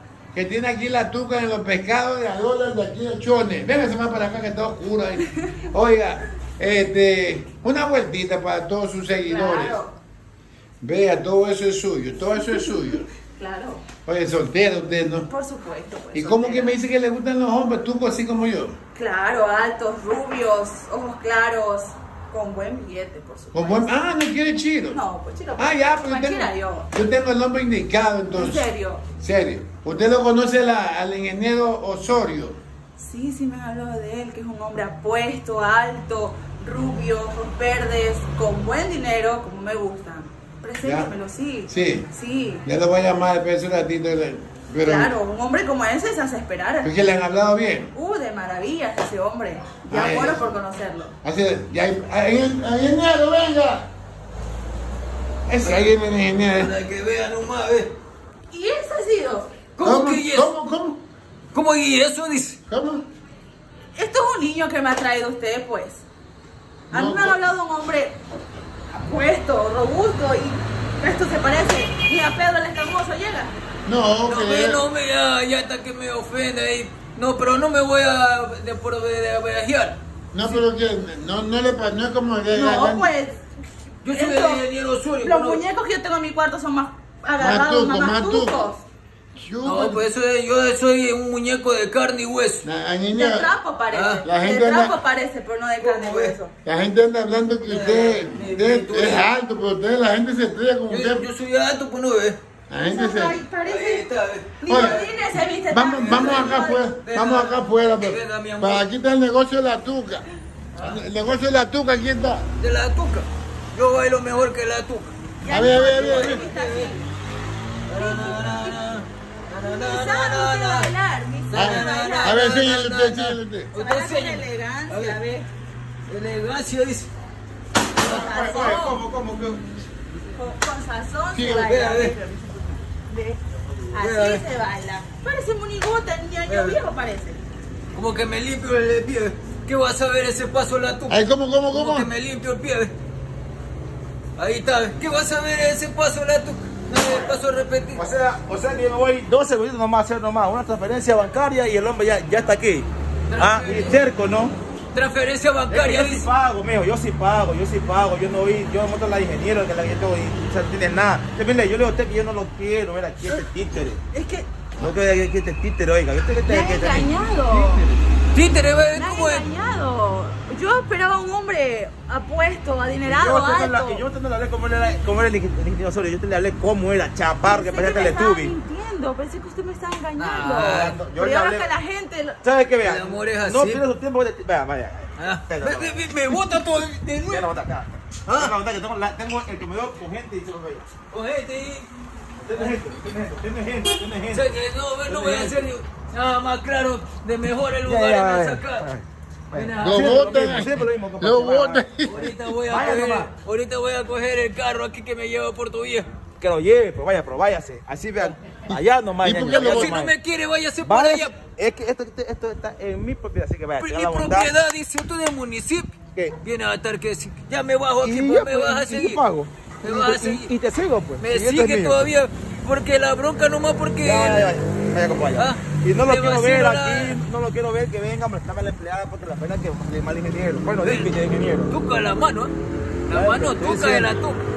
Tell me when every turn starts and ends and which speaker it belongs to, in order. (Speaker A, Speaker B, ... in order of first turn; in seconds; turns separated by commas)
Speaker A: 0.3-9.8, Speaker B: 9.2-9.9, Speaker A: 10.8-13.0, Speaker B: 12.4-13.8, Speaker A: 14.0-15.3, Speaker B: 15.3-16.8, Speaker A: 16.1-18.8, Speaker B: 18.9-23.9, Speaker A: 23.5-25.0, Speaker B: 24.9-26.9, Speaker A: 25.6-32.6, Speaker B: 28.3-29.0, Speaker B: 33.0-42.6, Speaker A: 40.8-41.1, Speaker A: 41.7-42.1, Speaker A: 42.6-45.1, Speaker B: 44.8-46.9, Speaker A: 46.8-47.9, Speaker B: 47.9-51.1, Speaker A: 49.9-50.5, Speaker A: 51.2-53.9, Speaker A: 55.5-56.7, Speaker C: 55.6-55.9, Speaker C: 56.5-57.9, Speaker B: 58.5-59.6, Speaker C: 59.8-60.5, Speaker A: 59.8-61.0, Speaker C: 61.5-62.6, Speaker A: 62.7-63.0, Speaker B: 64.0-66.0, Speaker A: 66.9-67.4, Speaker B: 66.9-68.2, Speaker B: 68.9-73.5, Speaker A: 73.8-74.8, Speaker C: 74.2-80.6, Speaker A: 80.3-83.1, Speaker B: 82.5-83.4, Speaker C: 84.0-85.6, Speaker B: 84.0-84.6, Speaker B: 85.2-88.8, Speaker A: 87.4-88.7, Speaker A: 89.3-90.0, Speaker C: 89.6-92.6, Speaker A: 92.6-93.5, Speaker B: 93.1-96.5, Speaker C: 93.9-94.2, Speaker A: 94.2-95.0, Speaker C: 95.8-96.4, Speaker A: 96.6-101.3, Speaker C: 97.7-99.3, Speaker C: 100.9-102.4, Speaker A: 102.7-103.4, Speaker B: 102.8-104.0, Speaker C: 103.6-105.1, Speaker B: 104.6-106.8, Speaker A: 104.7-105.0, Speaker A: 105.7-110.2, Speaker C: 106.0-108.8, Speaker C: 110.8-111.0, Speaker A: 110.8-112.5, Speaker C: 112.6-115.1, Speaker B: 115.4-117.0, Speaker A: 115.5-116.4, Speaker C: 115.9-116.9, Speaker C: 117.9-120.9, Speaker B: 117.9-118.8, Speaker B: 119.6-123.0, Speaker C: 121.5-125.2, Speaker A: 121.5-123.7, Speaker B: 123.7-125.5, Speaker C: 126.1-127.1, Speaker B: 128.0-129.0, Speaker D: 128.0-129.6, Speaker A: 128.0-128.5, Speaker B: 130.3-133.4, Speaker A: 131.3-131.7, Speaker C: 131.5-132.1, Speaker C: 133.9-134.4, Speaker B: 133.9-137.4, Speaker C: 136.5-136.8, Speaker C: 137.9-142.9, Speaker A: 141.1-142.1, Speaker C: 144.4-148.0, Speaker D: 147.9-154.5, Speaker C: 153.3-154.1, Speaker C: 154.9-156.3, Speaker D: 155.7-164.0, Speaker B: 164.1-164.6, Speaker D: 164.8-168.0, Speaker B: 166.4-167.9, Speaker C: 168.3-169.4, Speaker B: 168.9-174.0, Speaker D: 173.0-178.5, Speaker B: 177.4-182.4, Speaker C: 180.2-181.0, Speaker D: 180.6-181.7, Speaker D: 182.4-186.1, Speaker C: 182.8-183.8, Speaker C: 185.2-187.5, Speaker D: 187.3-190.9, Speaker C: 188.3-188.5, Speaker C: 191.1-191.9, Speaker D: 192.4-194.5, Speaker C: 194.3-198.8, Speaker D: 195.1-195.6, Speaker D: 197.8-203.3, Speaker C: 199.5-200.4, Speaker A: 199.8-202.2, Speaker C: 202.0-206.1, Speaker D: 206.4-210.1, Speaker A: 208.7-210.0, Speaker C: 209.5-211.4, Speaker D: 210.8-214.5, Speaker C: 213.8-219.2, Speaker D: 218.0-222.1, Speaker C: 219.8-220.5, Speaker C: 221.2-224.6, Speaker D: 224.0-231.7, Speaker C: 225.3-227.2, Speaker C: 230.8-231.1, Speaker C: 231.7-232.5, Speaker C: 233.1-234.4, Speaker D: 233.1-234.2